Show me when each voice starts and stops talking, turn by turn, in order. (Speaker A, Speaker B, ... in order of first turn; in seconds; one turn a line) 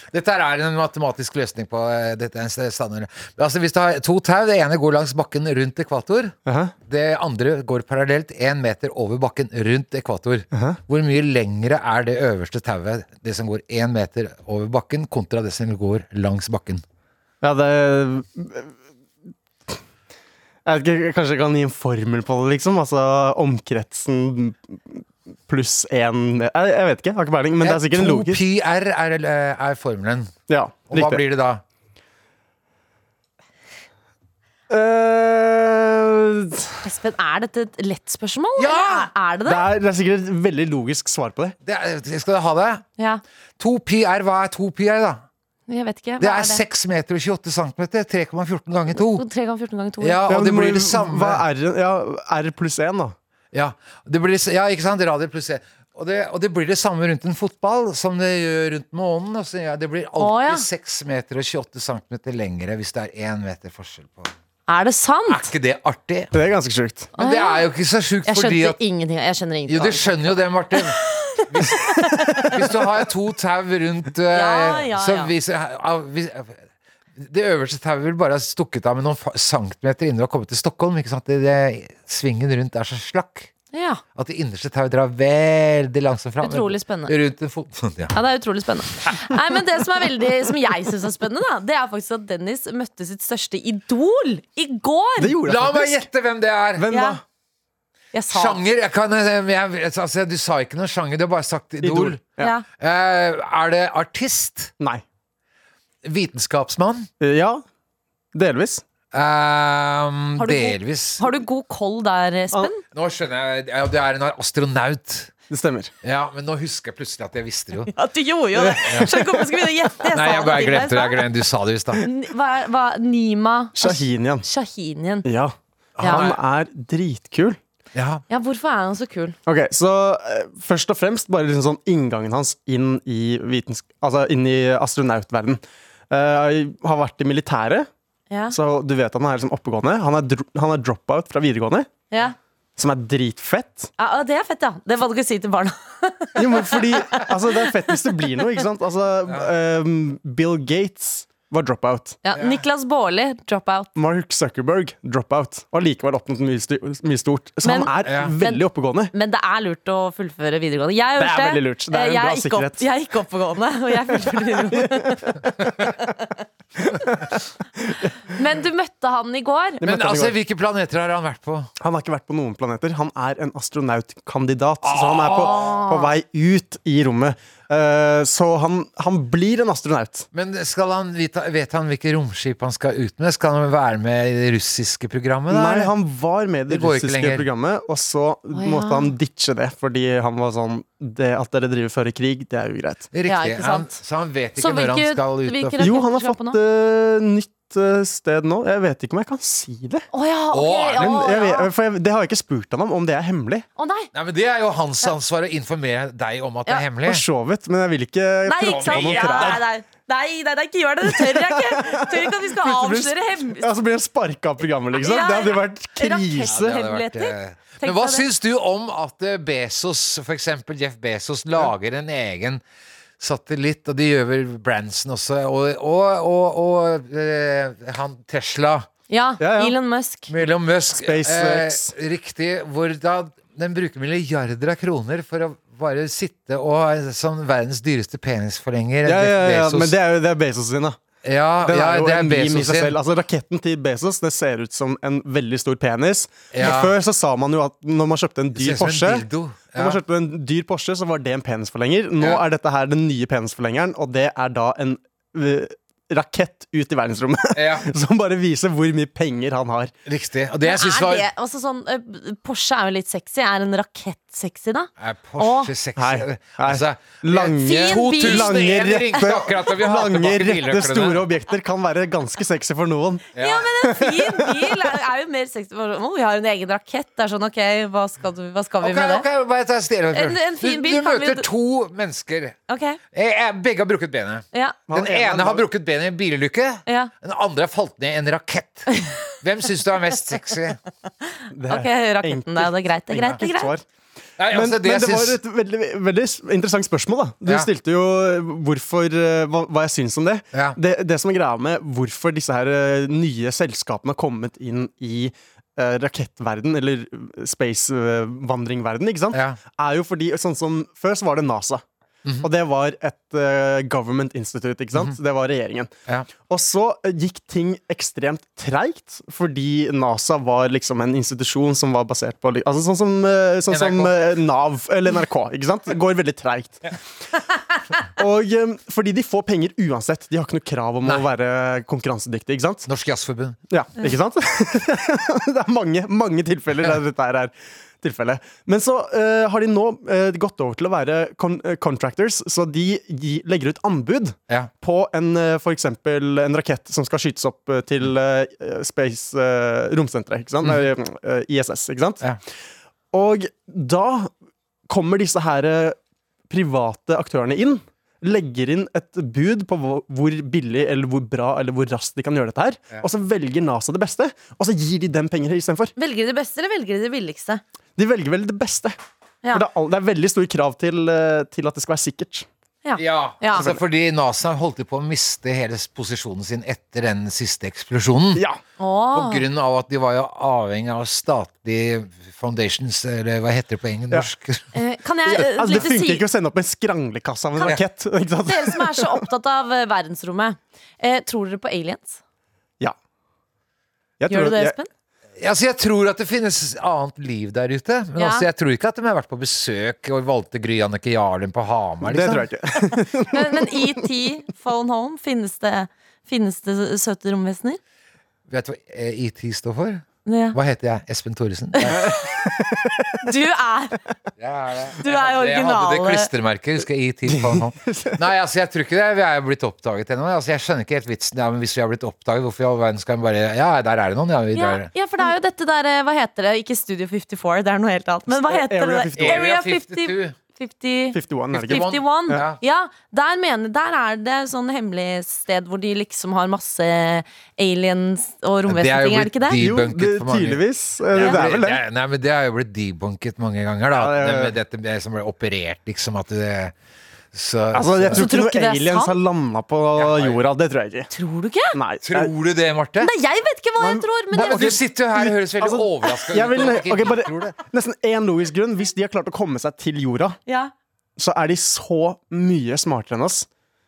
Speaker A: 0.1-6.3
Speaker B: 6.5-6.7
Speaker A: 6.9-16.8
Speaker B: 10.5-10.8
Speaker B: 17.4-18.7
Speaker B: 20.7-28.4
Speaker A: 27.6-30.3
Speaker B: 30.5-31.2
Speaker A: 30.9-31.6
Speaker B: 34.7-36.8
Speaker C: 36.8-39.7
Speaker A: 38.6-39.1
Speaker B: 39.5-41.5
Speaker A: 41.6-42.9
Speaker A: 43.6-45.2
Speaker C: 45.7-46.6
Speaker A: 46.2-49.2
Speaker C: 49.0-50.2
Speaker A: 50.0-51.4
Speaker B: 50.3-53.1
Speaker A: 53.5-64.3
Speaker C: 60.2-60.7
Speaker C: 64.7-65.5
Speaker A: 65.3-66.3
Speaker B: 66.3-67.1
Speaker A: 67.2-68.8
Speaker C: 67.2-67.6
Speaker C: 68.2-70.1
Speaker A: 69.7-71.0
Speaker C: 70.8-72.5
Speaker A: 71.5-71.9
Speaker A: 72.5-76.6
Speaker C: 74.3-75.3
Speaker A: 77.2-83.5
Speaker C: 83.7-84.0
Speaker A: 84.2-88.1
Speaker C: 86.4-87.2
Speaker C: 88.1-95.4
Speaker B: 95.2-96.0
Speaker A: 95.5-96.9
Speaker B: 96.8-97.2
Speaker C: 96.9-97.2
Speaker C: 98.1-98.6
Speaker A: 98.3-102.2
Speaker B: 101.8-102.5
Speaker C: 102.4-102.7
Speaker A: 102.8-104.7
Speaker A: 106.0-107.1
Speaker B: 107.2-107.6
Speaker B: 108.3-108.8
Speaker A: 109.1-111.2
Speaker C: 110.4-112.8
Speaker A: 112.9-115.3
Speaker B: 115.5-115.9
Speaker A: 116.0-117.9
Speaker C: 117.9-121.2
Speaker B: 118.6-119.4
Speaker A: 118.8-119.1
Speaker A: 120.1-122.0
Speaker C: 122.0-125.3
Speaker B: 123.8-124.5
Speaker B: 125.2-127.6
Speaker A: 126.0-126.4
Speaker C: 126.0-126.3
Speaker A: 128.0-128.2
Speaker C: 128.3-129.4
Speaker B: 129.5-137.9
Speaker C: 138.3-138.6
Speaker B: 138.5-141.9
Speaker B: 142.8-143.9
Speaker C: 144.0-147.3
Speaker B: 146.4-152.2
Speaker C: 152.2-153.9
Speaker A: 152.4-152.6
Speaker B: 154.0-159.1
Speaker C: 157.6-166.3
Speaker A: 158.1-158.3
Speaker B: 161.2-162.9
Speaker B: 164.1-165.5
Speaker B: 166.8-168.4
Speaker C: 168.3-169.8
Speaker B: 169.8-170.4
Speaker A: 169.8-171.7
Speaker B: 171.8-180.3
Speaker A: 174.8-175.7
Speaker C: 175.4-176.1
Speaker A: 180.3-185.9
Speaker B: 185.5-193.1
Speaker A: 186.7-187.5
Speaker C: 188.6-189.1
Speaker A: 193.1-195.9
Speaker C: 193.3-194.0
Speaker C: 194.6-196.6
Speaker B: 195.8-200.1
Speaker C: 200.1-201.7
Speaker A: 200.5-201.2
Speaker B: 201.0-203.7
Speaker C: 203.8-204.1
Speaker A: 204.1-207.2
Speaker B: 207.1-209.6
Speaker C: 208.5-213.7
Speaker A: 208.6-209.6
Speaker B: 211.1-216.8
Speaker C: 215.0-218.3
Speaker A: 216.5-222.6
Speaker A: 223.2-228.9
Speaker C: 229.1-230.3
Speaker B: 229.4-229.8
Speaker A: 230.3-239.9
Speaker B: 230.9-231.9
Speaker B: 239.1-241.0
Speaker A: 241.2-243.0
Speaker B: 241.6-259.9
Speaker A: 246.5-246.9
Speaker A: 248.6-250.0
Speaker A: 257.5-257.9
Speaker A: 260.1-261.3
Speaker C: 260.6-265.7
Speaker A: 265.0-271.3
Speaker B: 266.0-273.3
Speaker C: 267.6-268.8
Speaker A: 273.4-273.7
Speaker C: 273.4-279.3
Speaker B: 273.8-274.8
Speaker A: 278.8-282.6
Speaker C: 280.1-281.5
Speaker C: 282.7-283.0
Speaker A: 283.1-290.8
Speaker B: 284.9-285.7
Speaker C: 286.9-287.1
Speaker C: 291.3-293.7
Speaker B: 291.5-293.8
Speaker A: 294.4-295.4
Speaker B: 294.5-311.8
Speaker A: 309.3-309.6
Speaker B: 312.4-315.9
Speaker B: 316.5-327.0
Speaker A: 323.7-324.1
Speaker B: 328.2-332.9
Speaker A: 332.9-333.6
Speaker B: 333.7-352.3
Speaker B: 353.1-354.3
Speaker B: 354.9-356.0
Speaker B: 356.5-365.9
Speaker C: 366.0-367.6
Speaker B: 368.0-369.0
Speaker B: 369.5-372.5
Speaker C: 372.9-373.7
Speaker A: 373.0-378.4
Speaker C: 378.8-379.4
Speaker A: 379.1-384.6
Speaker C: 384.7-386.2
Speaker B: 385.3-389.2
Speaker C: 388.5-392.2
Speaker B: 394.2-394.8
Speaker C: 394.3-394.9
Speaker A: 395.4-402.5
Speaker C: 398.2-398.5
Speaker B: 402.0-404.0
Speaker C: 403.3-407.8
Speaker A: 408.5-412.1
Speaker C: 410.3-410.6
Speaker C: 411.8-412.3
Speaker B: 412.0-413.2
Speaker C: 413.2-414.0
Speaker A: 414.4-424.9
Speaker C: 415.0-416.3
Speaker B: 417.3-418.2
Speaker C: 424.6-439.6
Speaker B: 428.3-429.5
Speaker A: 429.2-430.4
Speaker B: 431.1-432.4
Speaker A: 431.5-432.6
Speaker A: 438.7-446.7
Speaker B: 439.6-441.8
Speaker B: 443.9-444.6
Speaker A: 447.3-448.3
Speaker B: 447.7-451.1
Speaker C: 448.1-449.1
Speaker A: 450.0-450.4
Speaker C: 451.1-451.8
Speaker B: 451.7-452.3
Speaker A: 452.1-453.1
Speaker C: 453.0-454.8
Speaker B: 453.8-460.4
Speaker A: 454.3-457.6
Speaker C: 460.5-460.7
Speaker B: 461.2-463.5